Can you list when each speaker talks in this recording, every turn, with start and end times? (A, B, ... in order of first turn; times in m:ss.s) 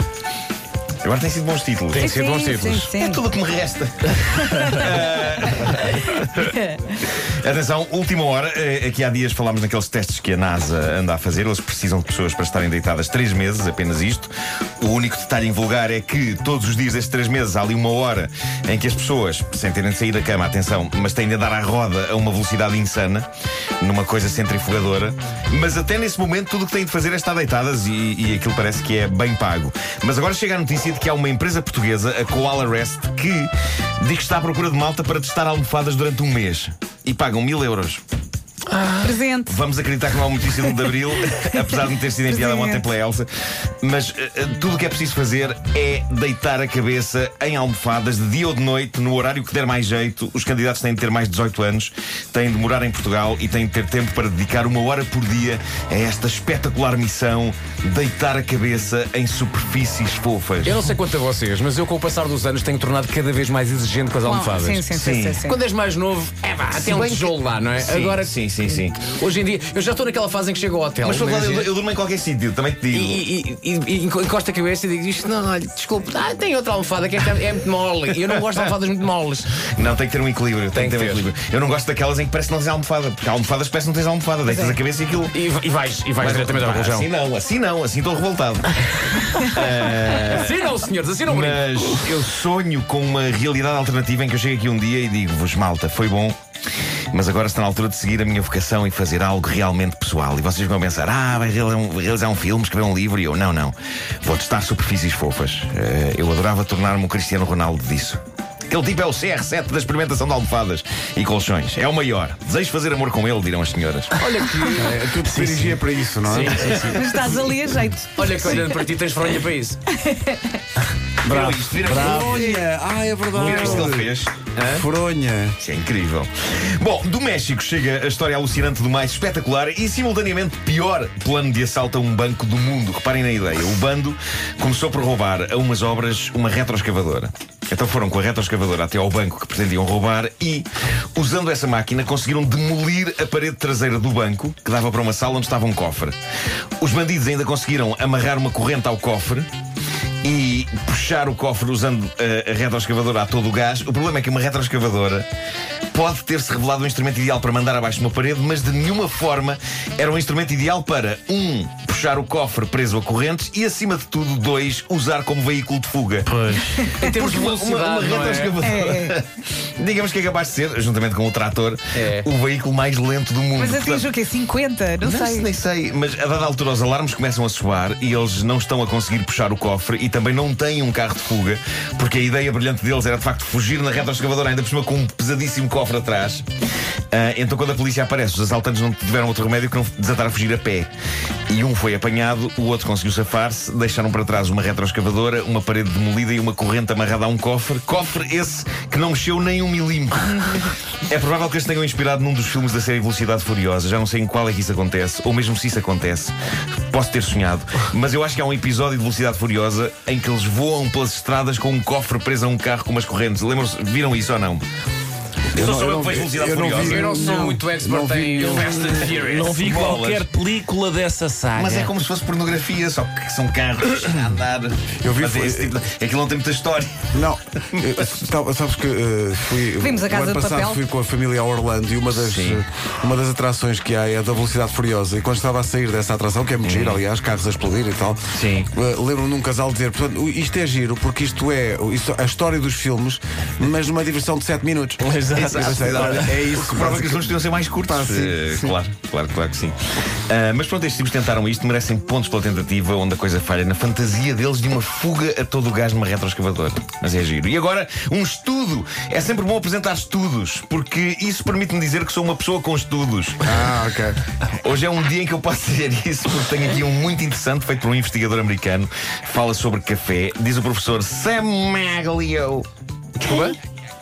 0:01.0-0:02.1 A
0:01.9-0:02.9 B
0:02.0-0:03.3 C
0:02.9-0:06.5 A
0:04.3-0:04.9 C
0:06.4-0:06.7 C
0:07.1-0:23.3 A
0:23.8-0:38.0 A
0:38.7-0:39.0 B
0:39.0-0:39.6 C
0:39.5-0:43.3 A
0:40.5-0:41.6 C
0:42.2-0:42.8 C
0:43.8-1:00.8 A
1:00.6-1:11.7 B
1:04.2-1:05.6 C
1:04.9-1:05.4 A
1:06.7-1:09.0 A
1:11.0-1:13.2 A
1:12.9-1:19.5 B
1:19.6-1:25.4 A
1:20.7-1:21.3 B
1:24.5-1:24.8 C
1:25.3-1:27.1 B
1:26.2-1:30.5 A
1:29.9-1:32.1 B
1:31.3-1:36.4 A
1:37.1-1:54.2 A
1:54.2-1:57.4 B
1:54.7-1:56.9 D
1:56.8-1:58.7 C
1:58.2-1:59.8 B
1:59.9-2:00.5 C
2:01.2-2:02.6 A
2:01.2-2:05.6 D
2:03.3-2:04.8 A
2:03.4-2:03.8 B
2:05.6-2:26.2 A
2:26.8-2:29.5 A
2:30.2-2:35.3 A
2:35.9-2:54.1 A
2:46.3-2:46.7 E
2:46.7-2:48.6 B
2:46.9-2:47.2 C
2:48.6-2:49.2 C
2:51.9-2:52.3 B
2:53.6-2:55.5 C
2:55.0-3:06.5 A
3:07.1-3:10.9 A
3:11.5-3:26.3 A
3:26.9-3:34.6 A
3:35.5-3:39.1 D
3:35.5-3:37.2 A
3:36.8-3:39.7 B
3:38.4-3:41.9 E
3:38.5-3:40.3 A
3:41.5-3:47.2 A
3:45.0-3:45.7 D
3:47.1-4:08.8 D
3:49.8-3:50.8 C
3:52.1-3:52.6 A
3:56.6-3:57.0 A
3:58.3-3:58.7 A
4:05.0-4:06.5 E
4:05.3-4:23.6 A
4:23.4-4:24.2 D
4:24.6-4:32.7 A
4:33.2-4:33.6 B